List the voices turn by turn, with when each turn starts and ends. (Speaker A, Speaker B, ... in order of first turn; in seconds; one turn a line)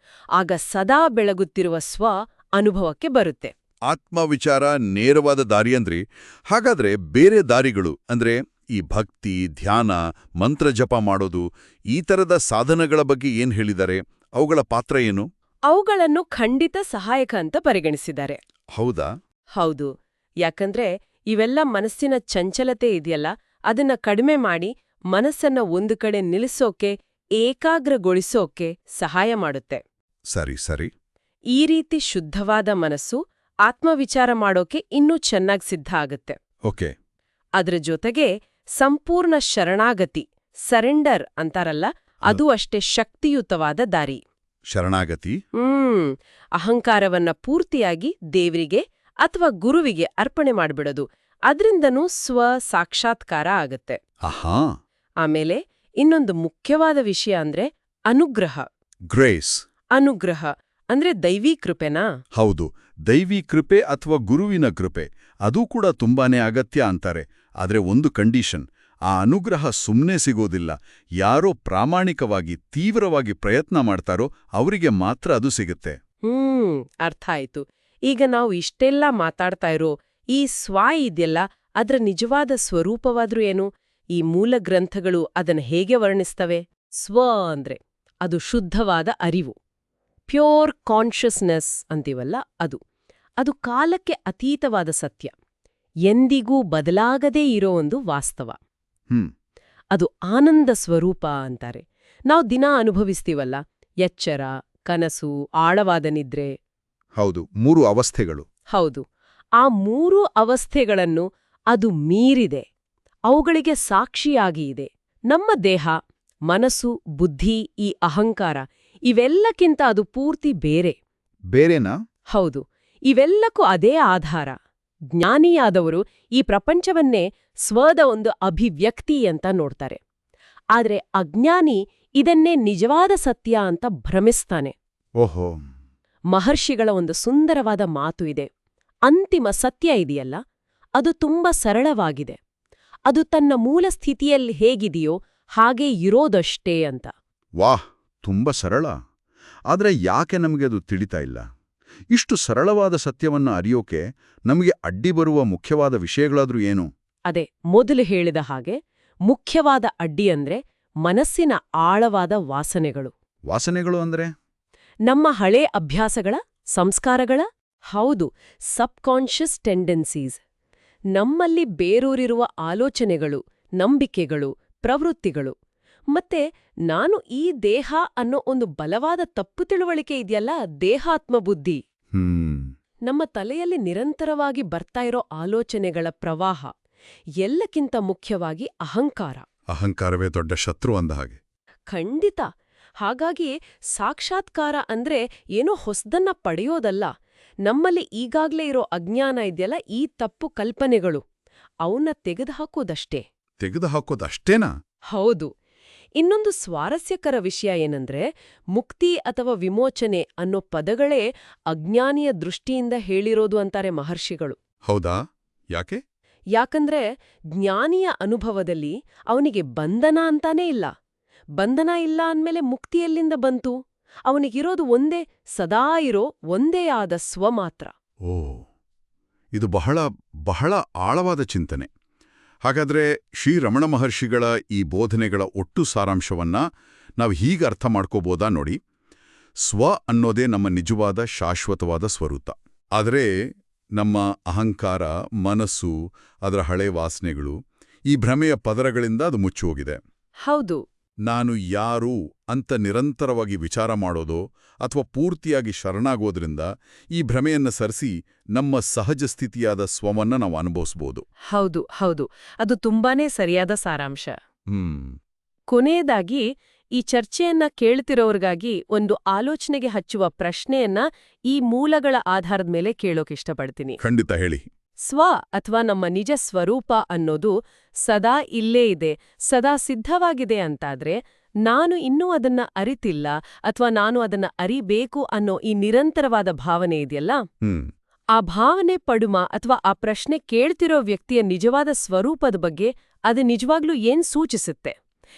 Speaker A: 0.4-3.5
Speaker B: 3.9-15.3
Speaker A: 15.7-18.4
Speaker B: 18.8-19.1
Speaker A: 19.6-19.9
Speaker A: 20.4-29.8
Speaker B: 30.3-30.9
Speaker A: 31.5-36.4
Speaker B: 36.7-36.9
Speaker A: 37.6-44.2
Speaker B: 44.7-45.4
Speaker A: 45.6-54.0
Speaker B: 54.2-54.6
Speaker A: 55.2-58.7
Speaker B: 59.1-59.6
Speaker A: 60.0-62.1
Speaker B: 62.4-76.0
Speaker A: 76.3-89.6
Speaker A: 90.3-92.8
Speaker A: 93.4-95.3
Speaker A: 96.1-98.6
Speaker A: 99.9-106.5
Speaker B: 107.2-108.5
Speaker A: 108.7-109.0
Speaker A: 109.6-112.7
Speaker A: 113.3-116.0
Speaker A: 116.5-121.0
Speaker B: 121.5-122.0
Speaker A: 122.3-124.6
Speaker A: 125.1-130.0
Speaker A: 130.8-134.7
Speaker B: 135.2-135.6
Speaker A: 136.3-138.5
Speaker A: 139.1-140.4
Speaker A: 141.0-142.4
Speaker A: 143.1-147.1
Speaker B: 147.6-148.9
Speaker B: 149.7-151.4
Speaker B: 152.1-156.9
Speaker A: 157.3-163.1
Speaker B: 163.5-164.3
Speaker A: 165.1-170.4
Speaker A: 171.2-175.6
Speaker A: 176.1-181.8
Speaker B: 182.2-182.7
Speaker A: 183.1-186.7
Speaker A: 187.4-189.4
Speaker B: 189.7-191.4
Speaker A: 191.9-192.4
Speaker A: 193.0-197.1
Speaker A: 197.7-201.2
Speaker A: 201.8-203.2
Speaker B: 203.6-204.7
Speaker A: 205.1-205.5
Speaker A: 206.2-214.6
Speaker B: 214.9-215.2
Speaker B: 215.7-216.0
Speaker A: 216.6-220.9
Speaker A: 221.6-223.8
Speaker A: 224.3-227.9
Speaker B: 228.2-228.7
Speaker B: 229.5-231.9
Speaker B: 232.6-236.6
Speaker B: 237.2-238.8
Speaker B: 239.6-243.3
Speaker B: 244.0-247.6
Speaker B: 248.1-250.0
Speaker A: 250.4-250.8
Speaker B: 251.3-261.2
Speaker A: 261.5-264.4
Speaker B: 264.7-265.2
Speaker A: 265.7-266.4
Speaker A: 267.0-274.0
Speaker B: 274.0-274.6
Speaker A: 275.1-287.4
Speaker B: 287.6-287.9
Speaker A: 288.4-295.0